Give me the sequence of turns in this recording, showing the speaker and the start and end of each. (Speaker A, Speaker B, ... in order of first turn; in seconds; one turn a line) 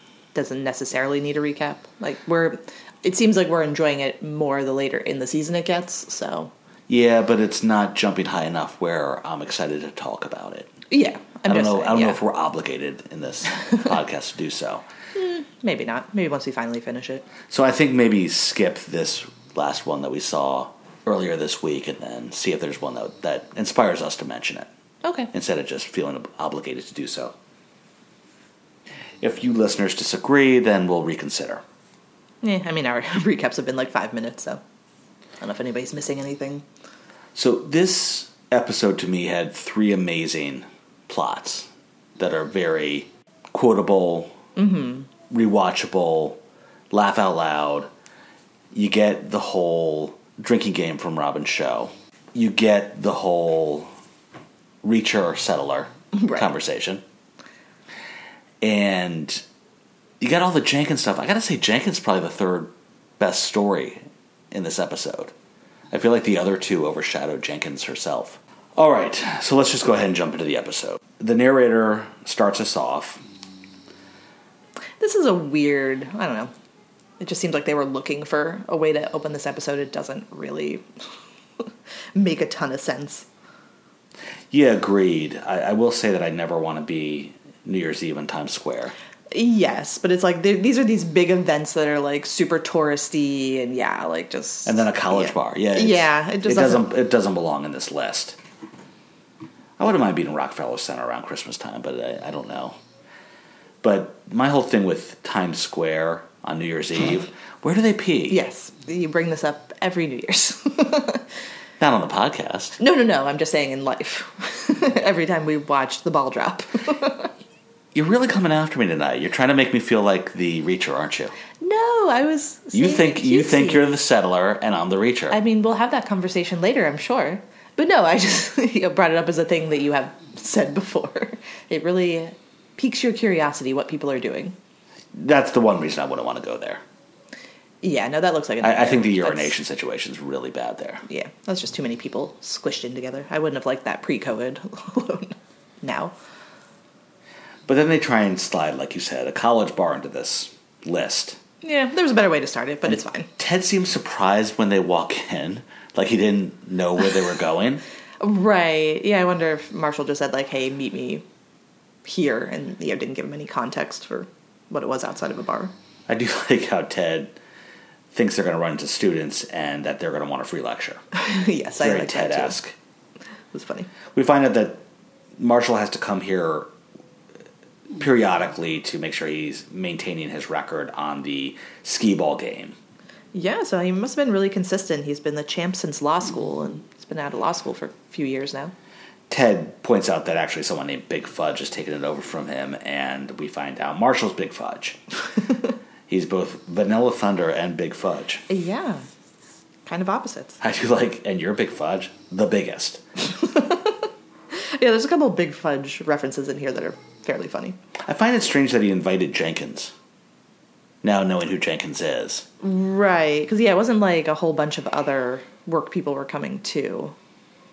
Speaker A: 0.3-6.5
Speaker B: 6.9-10.7
Speaker A: 10.9-12.2
Speaker B: 11.5-14.8
Speaker A: 15.1-17.2
Speaker B: 17.5-24.7
Speaker A: 25.0-25.3
Speaker B: 25.3-27.3
Speaker B: 29.2-31.6
Speaker A: 32.4-34.6
Speaker A: 35.4-36.6
Speaker B: 37.3-44.3
Speaker A: 44.5-45.1
Speaker B: 45.3-46.4
Speaker B: 46.9-47.9
Speaker B: 48.7-53.9
Speaker B: 54.8-57.0
Speaker A: 56.1-56.5
Speaker B: 58.6-59.4
Speaker B: 60.2-65.3
Speaker B: 65.9-73.2
Speaker A: 75.0-76.5
Speaker A: 77.2-80.8
Speaker A: 82.1-83.2
Speaker B: 84.5-88.9
Speaker A: 89.3-96.9
Speaker B: 94.7-98.4
Speaker B: 99.8-102.8
Speaker B: 103.8-108.4
Speaker A: 108.3-111.2
Speaker B: 111.8-112.8
Speaker A: 112.8-117.3
Speaker B: 117.9-121.3
Speaker A: 121.6-123.8
Speaker B: 122.7-125.4
Speaker A: 125.3-134.5
Speaker B: 135.1-136.8
Speaker A: 137.8-139.5
Speaker B: 138.6-141.0
Speaker A: 141.1-146.1
Speaker B: 147.7-151.4
Speaker A: 151.6-153.3
Speaker B: 153.4-157.8
Speaker A: 158.2-161.2
Speaker A: 162.0-165.7
Speaker B: 166.1-167.3
Speaker B: 168.1-171.0
Speaker A: 171.1-172.6
Speaker B: 171.8-172.7
Speaker A: 173.5-173.9
Speaker B: 174.1-174.8
Speaker B: 175.4-176.7
Speaker B: 178.0-182.8
Speaker A: 183.3-188.7
Speaker B: 189.3-195.0
Speaker B: 196.1-198.4
Speaker A: 198.5-199.0
Speaker A: 199.8-200.6
Speaker B: 200.6-203.0
Speaker A: 203.3-207.8
Speaker B: 208.1-209.9
Speaker B: 211.0-212.4
Speaker A: 212.6-217.1